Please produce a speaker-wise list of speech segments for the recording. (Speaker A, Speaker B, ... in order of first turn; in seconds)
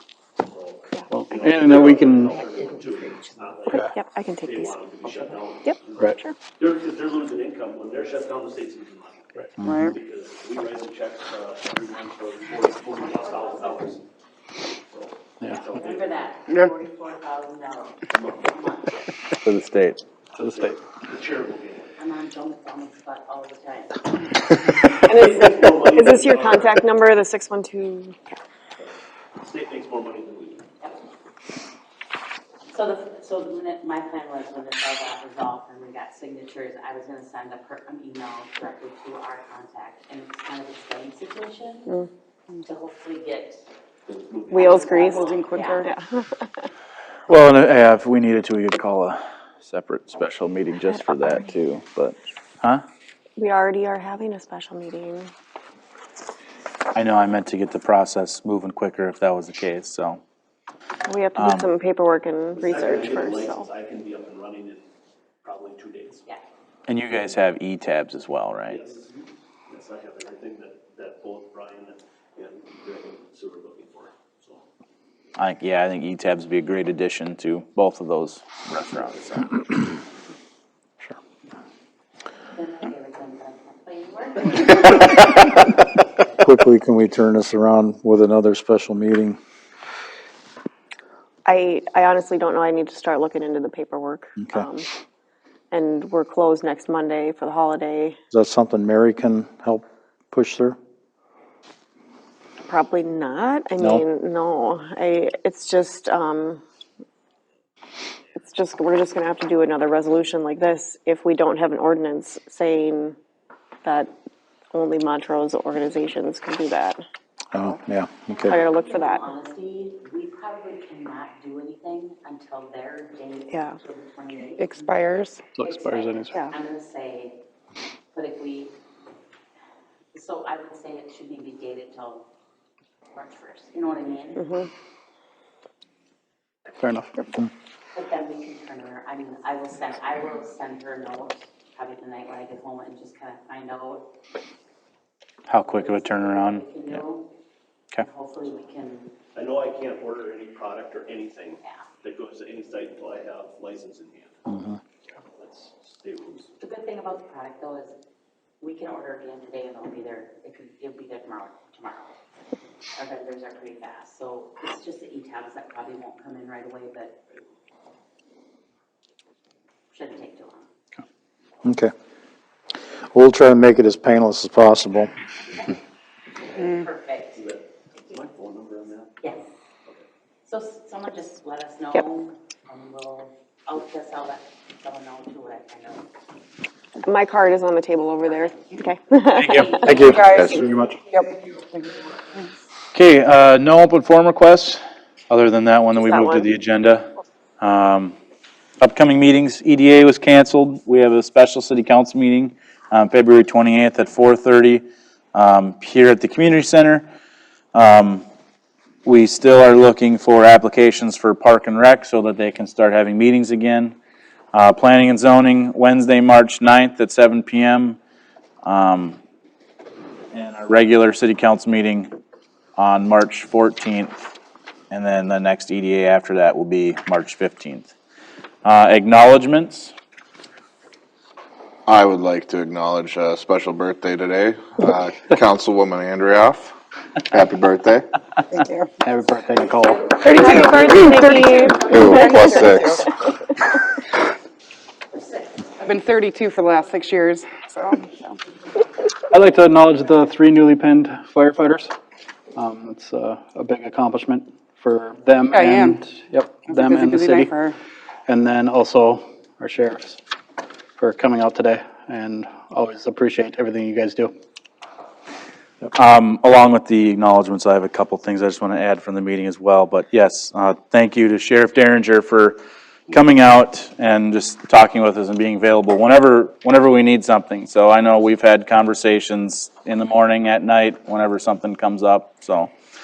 Speaker A: 0.4-14.0, 14.6-16.1, 18.1-18.6, 20.3-21.9, 25.0-26.7, 29.4-30.6, 44.1-45.1, 62.5-64.9, 65.4-66.2, 68.7-74.6, 149.3-156.6, 177.3-179.2
Speaker B: 1.1-2.3, 125.5-126.3, 136.8-137.1, 239.0-240.0, 249.3-251.9, 252.6-257.6, 258.3-260.2, 261.0-264.3
Speaker C: 3.7-6.3, 25.0-28.2, 44.5-45.3, 45.8-46.5, 53.4-55.3, 61.0-63.6, 91.4-94.8, 95.7-98.2, 102.6-106.6, 108.3-113.2, 113.8-114.1, 114.7-117.0, 118.4-119.2, 134.4-134.7, 187.0-190.1, 196.1-196.5, 240.3-242.0
Speaker D: 9.6-9.9, 45.2-45.9, 124.6-125.5, 190.1-191.9, 238.5-239.0, 240.2-243.1, 245.8-248.4, 255.4-257.8
Speaker E: 12.8-13.9, 15.5-19.1, 22.0-24.1, 32.7-42.0, 42.6-43.6, 44.5-45.9, 82.5-86.3, 118.3-125.0, 125.6-127.3, 128.1-128.7, 130.1-132.2, 133.1-134.5, 137.9-144.1, 145.7-147.3, 148.0-149.1, 156.6-157.9, 158.6-162.2, 162.9-167.2, 169.9-170.6, 176.5-177.4, 180.4-186.1, 188.3-188.7, 189.3-190.6, 239.6-242.3, 245.1-245.5
Speaker F: 19.4-20.4, 47.3-52.8, 56.9-60.2, 61.4-61.7, 66.9-68.8, 75.4-79.6, 145.5-147.0, 189.5-190.7, 192.9-197.1, 197.6-198.2, 198.8-207.1, 207.7-208.2, 209.0-213.9, 214.5-218.0, 218.6-219.2, 220.3-222.1, 222.8-224.2, 224.9-227.9, 228.6-229.9, 265.9-282.7
Speaker G: 86.4-89.4, 94.4-94.7, 98.3-100.8, 117.5-118.5, 171.6-171.9, 173.1-175.1, 190.2-190.9
Speaker H: 231.8-236.7, 237.3-238.1, 241.9-243.1